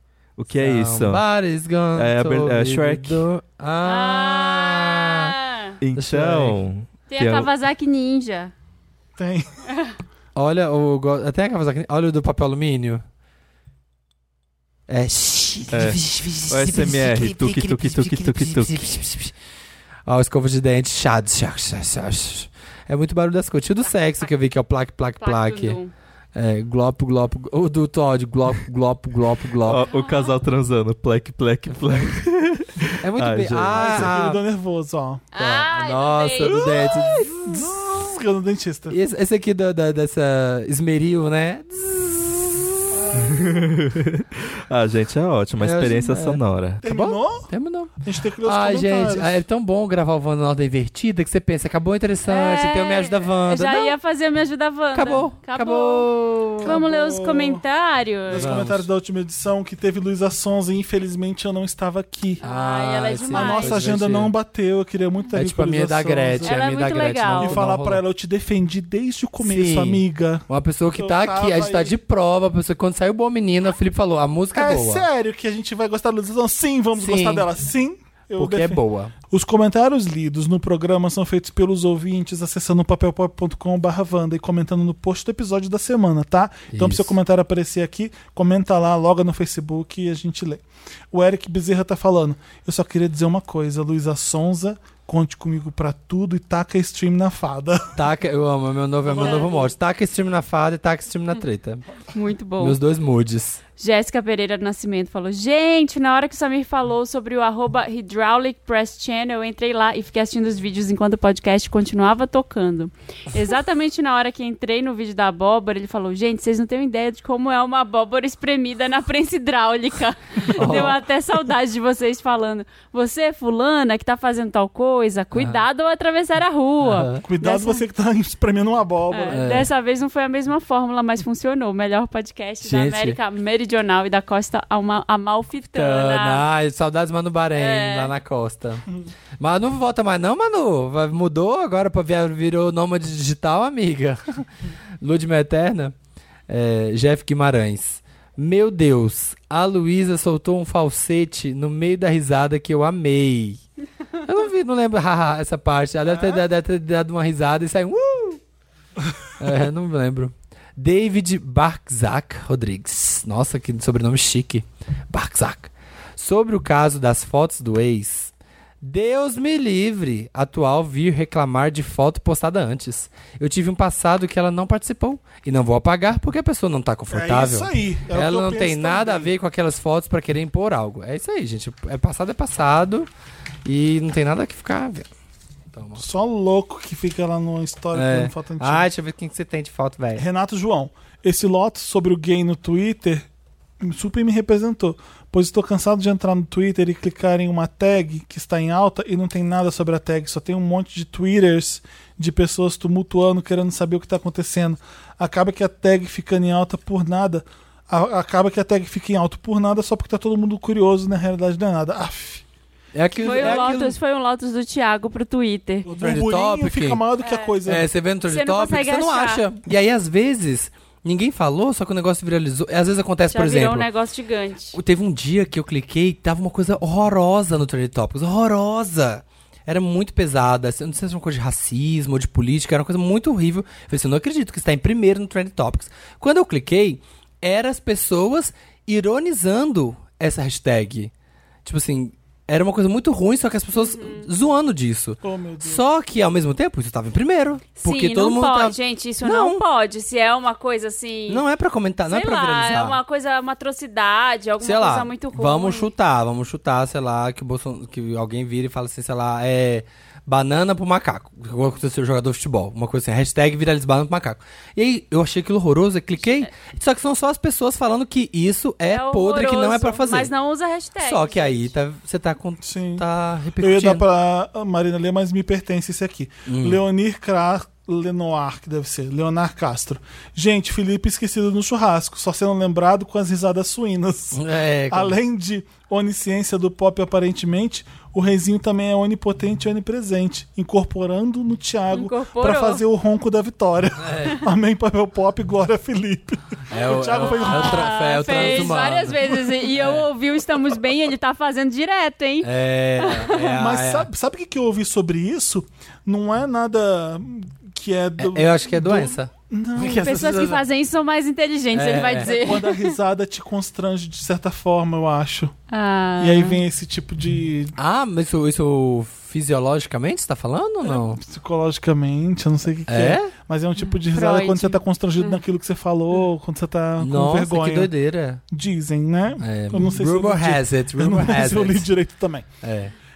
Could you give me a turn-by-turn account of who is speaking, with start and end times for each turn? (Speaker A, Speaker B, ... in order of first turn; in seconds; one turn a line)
Speaker A: 0.4-1.2
Speaker B: 0.5-5.3
Speaker A: 1.9-3.3
Speaker C: 3.8-5.8
Speaker A: 5.8-7.5
Speaker B: 6.0-6.6
Speaker C: 7.1-8.5
Speaker D: 9.2-9.5
Speaker C: 9.7-9.9
Speaker B: 10.4-13.0
Speaker B: 14.9-19.3
Speaker A: 15.7-18.9
Speaker B: 20.1-25.8
Speaker C: 25.2-25.9
Speaker B: 26.4-29.8
Speaker A: 29.6-34.1
Speaker C: 29.8-30.3
Speaker B: 33.0-34.4
Speaker D: 33.7-35.3
Speaker C: 35.3-36.6
Speaker B: 35.4-37.7
Speaker D: 36.4-39.0
Speaker B: 38.9-42.9
Speaker D: 42.9-43.6
Speaker A: 43.2-46.9
Speaker B: 45.6-47.9
Speaker D: 46.8-47.5
Speaker D: 48.0-49.4
Speaker B: 48.5-54.0
Speaker C: 52.3-58.5
Speaker B: 54.9-56.7
Speaker D: 56.6-57.6
Speaker D: 58.3-62.4
Speaker B: 58.3-58.9
Speaker B: 62.4-64.3
Speaker C: 62.4-63.9
Speaker D: 63.3-66.6
Speaker B: 65.3-68.0
Speaker C: 66.4-67.6
Speaker D: 67.4-70.5
Speaker B: 69.4-75.1
Speaker D: 71.0-72.0
Speaker D: 74.5-98.0
Speaker B: 77.0-77.5
Speaker B: 78.4-79.1
Speaker B: 86.7-87.1
Speaker B: 98.0-101.8
Speaker C: 99.2-99.7
Speaker D: 99.2-99.5
Speaker C: 102.1-102.8
Speaker B: 102.6-103.6
Speaker C: 103.8-127.8
Speaker B: 120.6-121.0
Speaker B: 125.3-125.6
Speaker B: 126.8-127.2
Speaker D: 127.2-129.4
Speaker C: 129.1-136.4
Speaker B: 129.3-129.7
Speaker B: 132.6-133.2
Speaker B: 135.7-138.8
Speaker C: 137.6-138.1
Speaker B: 139.4-144.4
Speaker B: 145.0-145.9
Speaker B: 146.5-153.6
Speaker B: 154.2-158.4
Speaker B: 159.4-183.1
Speaker D: 177.1-179.3
Speaker B: 183.7-185.1
Speaker B: 185.7-186.0
Speaker D: 186.0-188.9
Speaker B: 187.9-190.2
Speaker D: 190.2-193.3
Speaker D: 193.8-212.4
Speaker B: 212.9-214.0
Speaker C: 213.2-215.9
Speaker D: 213.2-213.8
Speaker D: 215.9-217.9
Speaker B: 216.0-217.0
Speaker C: 217.2-217.6
Speaker B: 217.7-223.9
Speaker C: 218.3-219.4
Speaker C: 223.3-224.8
Speaker B: 224.7-241.1
Speaker B: 241.7-249.6
Speaker C: 243.8-244.3
Speaker D: 245.2-245.8
Speaker C: 247.8-251.4
Speaker B: 251.3-253.0
Speaker C: 252.1-255.9
Speaker B: 254.6-270.3
Speaker C: 268.9-271.7
Speaker B: 271.0-274.0
Speaker D: 272.6-273.1
Speaker D: 273.6-299.1
Speaker B: 276.5-276.8
Speaker B: 284.3-285.2
Speaker C: 291.9-292.8
Speaker B: 294.0-294.4
Speaker B: 296.7-300.1
Speaker C: 297.2-303.6
Speaker B: 302.4-304.1
Speaker D: 303.5-310.2
Speaker B: 308.2-310.6
Speaker C: 310.0-312.9
Speaker B: 311.7-312.5
Speaker D: 312.2-315.5
Speaker C: 315.7-316.6
Speaker D: 316.2-317.7
Speaker B: 317.8-321.2
Speaker D: 320.8-327.9
Speaker B: 322.9-323.3
Speaker C: 324.1-325.4
Speaker B: 327.0-328.4
Speaker D: 328.5-332.5
Speaker B: 329.4-331.9
Speaker B: 332.6-332.9